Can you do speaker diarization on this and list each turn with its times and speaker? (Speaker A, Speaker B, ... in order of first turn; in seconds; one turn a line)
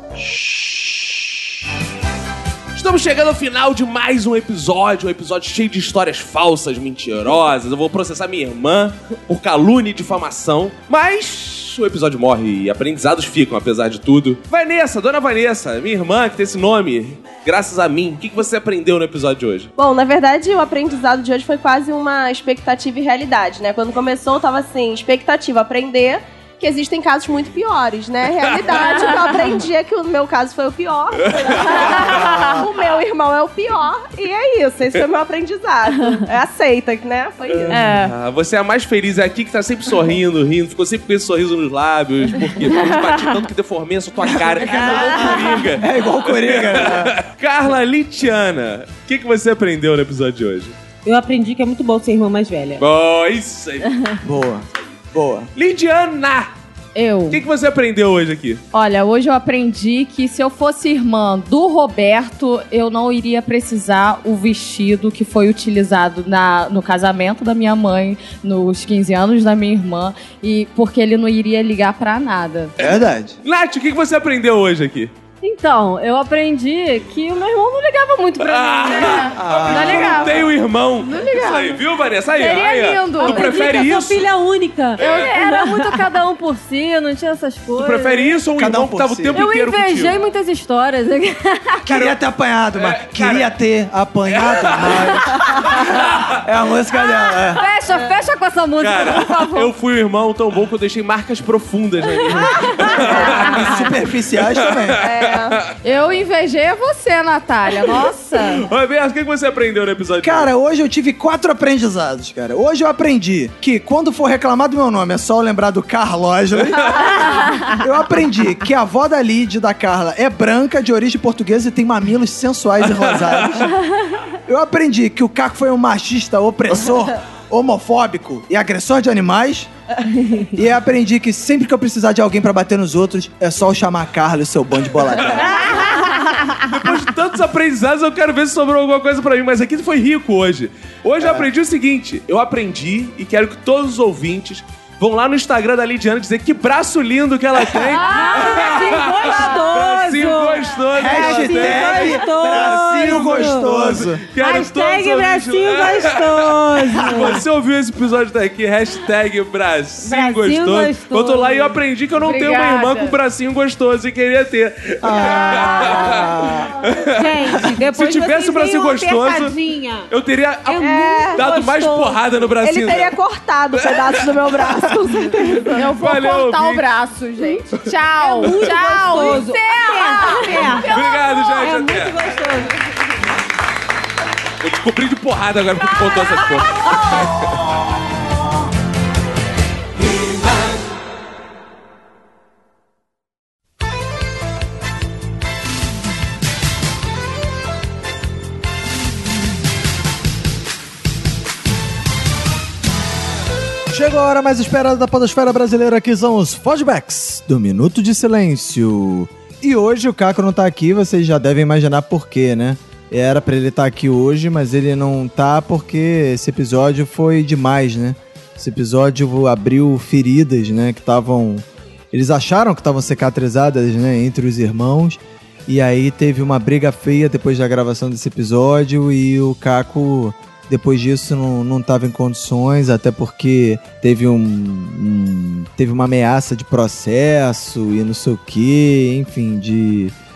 Speaker A: 0.2-1.1
Speaker B: 2.7-19.7
Speaker C: 19.8-37.8
Speaker D: 28.7-29.4
Speaker B: 31.2-32.2
Speaker D: 31.8-32.6
Speaker B: 37.6-50.7
Speaker D: 37.7-38.1
Speaker A: 44.2-47.1
Speaker E: 51.0-52.8
Speaker B: 52.8-54.1
Speaker A: 54.2-55.5
Speaker B: 55.5-56.5
Speaker D: 56.9-57.4
Speaker B: 57.3-58.6
Speaker D: 58.7-72.7
Speaker A: 72.8-73.4
Speaker B: 72.8-75.1
Speaker F: 75.4-79.2
Speaker B: 78.4-84.2
Speaker D: 78.8-80.5
Speaker A: 79.3-80.5
Speaker F: 81.1-81.5
Speaker D: 81.1-81.8
Speaker D: 82.3-83.6
Speaker F: 83.2-83.8
Speaker E: 83.2-85.0
Speaker B: 85.0-85.3
Speaker F: 85.0-88.4
Speaker B: 87.8-90.1
Speaker A: 88.5-89.4
Speaker F: 89.3-91.8
Speaker A: 91.8-97.6
Speaker B: 91.8-92.2
Speaker B: 92.8-93.5
Speaker B: 94.3-96.3
Speaker F: 97.3-99.7
Speaker B: 98.8-103.9
Speaker A: 102.8-105.0
Speaker B: 104.5-105.7
Speaker C: 105.0-105.6
Speaker D: 105.8-108.7
Speaker B: 108.4-110.5
Speaker A: 110.2-123.8
Speaker B: 116.7-117.3
Speaker B: 123.1-123.7
Speaker A: 124.5-129.7
Speaker A: 130.4-135.8
Speaker B: 135.2-135.9
Speaker B: 136.6-169.5
Speaker A: 141.2-141.5
Speaker D: 147.9-149.6
Speaker E: 148.1-157.4
Speaker A: 150.9-154.2
Speaker E: 160.0-161.8
Speaker D: 162.1-163.2
Speaker A: 165.0-166.8
Speaker E: 167.1-170.1
Speaker B: 170.1-173.2
Speaker E: 170.7-172.2
Speaker C: 170.8-171.4
Speaker C: 172.6-175.9
Speaker B: 173.8-176.8
Speaker D: 175.7-181.4
Speaker E: 178.2-182.7
Speaker B: 180.8-182.1
Speaker B: 184.6-187.6
Speaker A: 203.9-240.1